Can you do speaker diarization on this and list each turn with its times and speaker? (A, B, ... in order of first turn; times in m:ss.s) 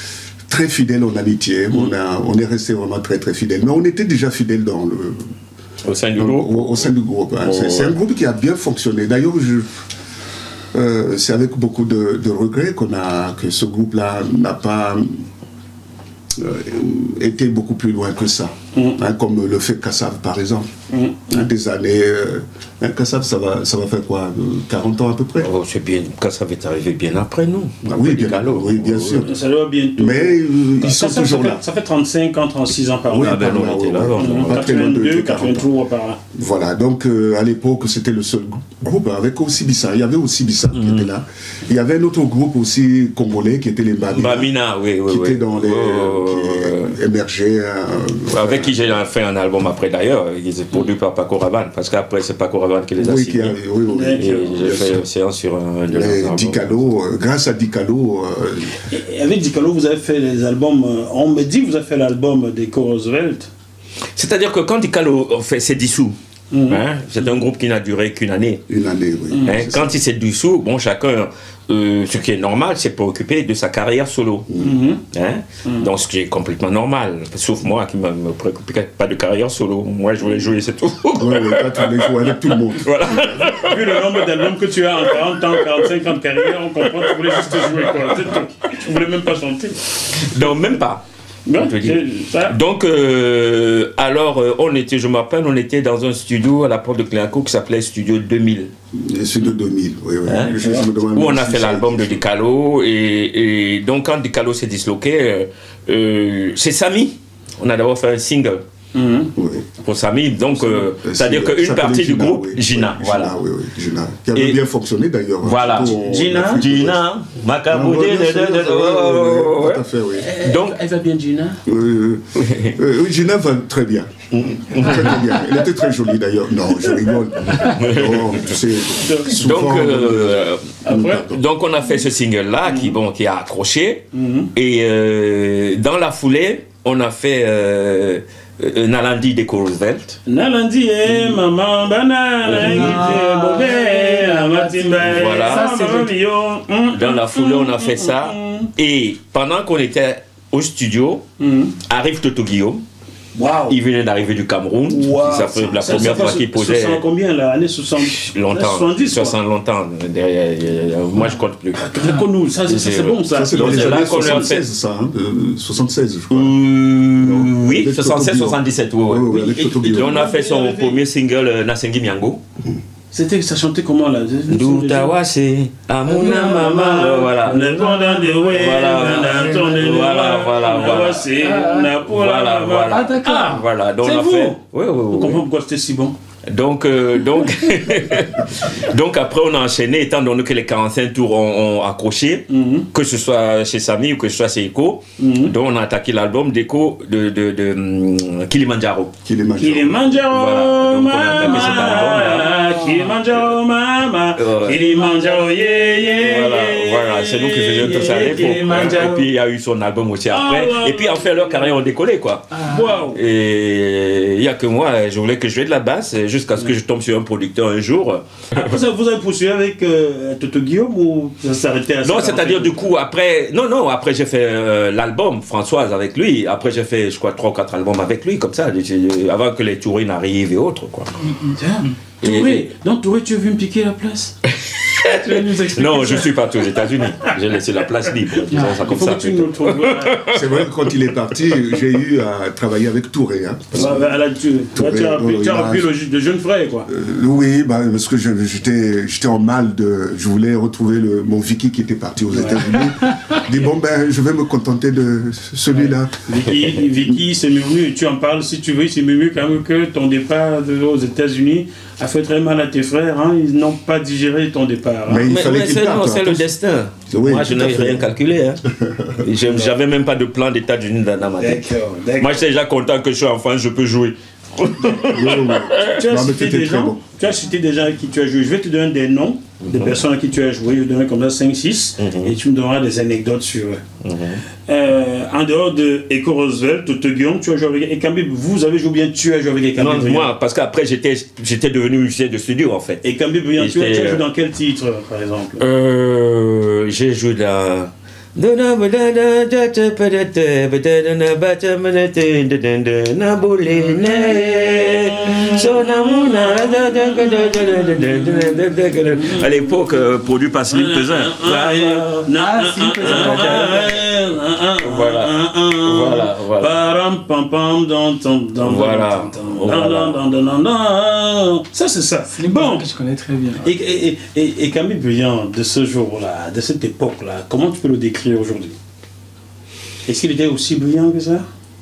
0:00.5-0:05.4 A
0:05.8-0:06.7 B
0:06.2-0:09.7 A
0:07.4-0:07.9 B
0:10.7-0:15.3 A
0:16.4-0:20.7 A
0:18.7-0:19.0 C
0:20.9-0:21.5 C
0:21.3-0:25.5 A
0:25.4-0:29.3 B
0:27.8-0:29.3 A
0:29.2-0:33.5 C
0:30.0-0:31.6 A
0:33.1-0:35.7 A
0:33.1-0:34.6 B
0:34.2-0:36.2 C
0:36.3-0:44.5 A
0:40.7-0:41.1 B
0:44.1-0:47.0 B
0:45.0-0:48.8 A
0:48.3-0:53.6 B
0:53.0-0:55.0 A
0:53.9-0:54.8 C
0:54.2-0:56.8 B
0:55.9-0:58.8 A
0:58.8-1:03.5 C
1:04.2-1:08.6 B
1:06.5-1:06.8 C
1:08.7-1:10.0 A
1:09.3-1:09.6 C
1:09.4-1:14.5 B
1:14.5-1:14.8 A
1:14.6-1:15.0 C
1:15.1-1:24.1 B
1:21.1-1:23.4 A
1:23.5-1:30.7 C
1:25.2-1:25.6 B
1:27.1-1:28.4 B
1:30.1-1:31.0 B
1:31.4-1:32.6 C
1:31.6-1:38.7 B
1:38.9-1:42.2 A
1:40.2-1:48.6 B
1:40.6-1:40.8 C
1:48.9-1:49.3 C
1:49.4-1:49.7 A
1:49.8-1:53.3 B
1:50.6-1:57.0 A
1:54.3-1:54.6 B
1:55.4-1:56.0 B
1:56.0-1:56.6 C
1:56.6-2:00.8 B
1:57.7-2:00.3 A
2:00.1-2:01.6 C
2:01.6-2:11.3 A
2:02.4-2:02.7 B
2:04.3-2:05.4 B
2:07.5-2:08.6 B
2:08.9-2:09.4 C
2:09.3-2:20.2 B
2:10.8-2:11.3 C
2:12.6-2:12.9 C
2:14.1-2:14.5 C
2:20.3-2:28.7 C
2:22.5-2:23.2 B
2:22.5-2:26.1 D
2:25.0-2:25.7 B
2:26.9-2:31.2 B
2:31.4-2:31.8 C
2:31.8-2:32.8 B
2:33.4-2:33.8 C
2:33.7-2:37.0 B
2:34.9-2:39.4 C
2:38.0-2:41.9 B
2:41.7-2:44.5 C
2:42.6-2:44.6 B
2:43.3-2:46.5 A
2:46.3-2:52.4 B
2:47.2-2:50.2 A
2:49.8-2:51.0 C
2:53.1-2:55.2 C
2:54.5-2:57.8 B
2:56.1-3:06.2 C
2:57.5-2:58.4 D
2:58.5-3:01.3 B
2:59.0-2:59.6 D
3:01.3-3:01.9 D
3:02.0-3:05.4 B
3:02.9-3:03.6 D
3:06.5-3:19.1 B
3:12.5-3:12.9 C
3:15.2-3:15.5 C
3:19.2-3:20.2 A
3:19.6-3:29.3 C
3:20.2-3:22.5 B
3:24.4-3:25.0 B
3:24.9-3:25.4 D
3:26.0-3:38.8 B
3:30.3-3:31.7 C
3:32.6-3:32.8 D
3:32.6-3:33.2 C
3:38.5-3:42.8 C
3:42.0-3:51.2 B
3:51.5-3:54.4 C
3:52.2-3:52.6 B
3:54.5-4:00.6 B
3:55.0-3:56.3 C
3:58.5-3:58.8 D
3:58.6-4:00.3 C
4:00.2-4:04.2 A
4:03.7-4:06.9 C
4:04.7-4:05.9 A
4:06.9-4:16.2 A
4:12.3-4:12.6 C
4:16.2-4:25.3 C
4:25.1-4:26.5 A
4:25.2-4:28.6 B
4:27.1-4:28.1 A
4:28.6-4:29.2 A
4:29.2-4:31.7 B
4:29.4-4:29.7 C
4:31.4-4:32.4 C
4:32.2-4:36.0 B
4:35.0-4:37.0 A
4:35.9-4:43.8 C
4:39.6-4:40.0 B
4:42.0-4:42.3 B
4:44.0-4:44.4 B
4:44.6-4:50.3 C
4:49.8-4:54.3 B
4:53.0-4:55.6 C
4:55.6-5:12.3 B
5:03.9-5:08.6 C
5:09.2-5:09.5 C
5:10.7-5:22.8 C
5:12.4-5:13.8 D
5:13.0-5:14.0 B
5:14.8-5:16.7 B
5:18.6-5:20.2 B
5:22.3-5:23.7 D
5:23.6-5:28.8 C
5:30.1-5:31.4 C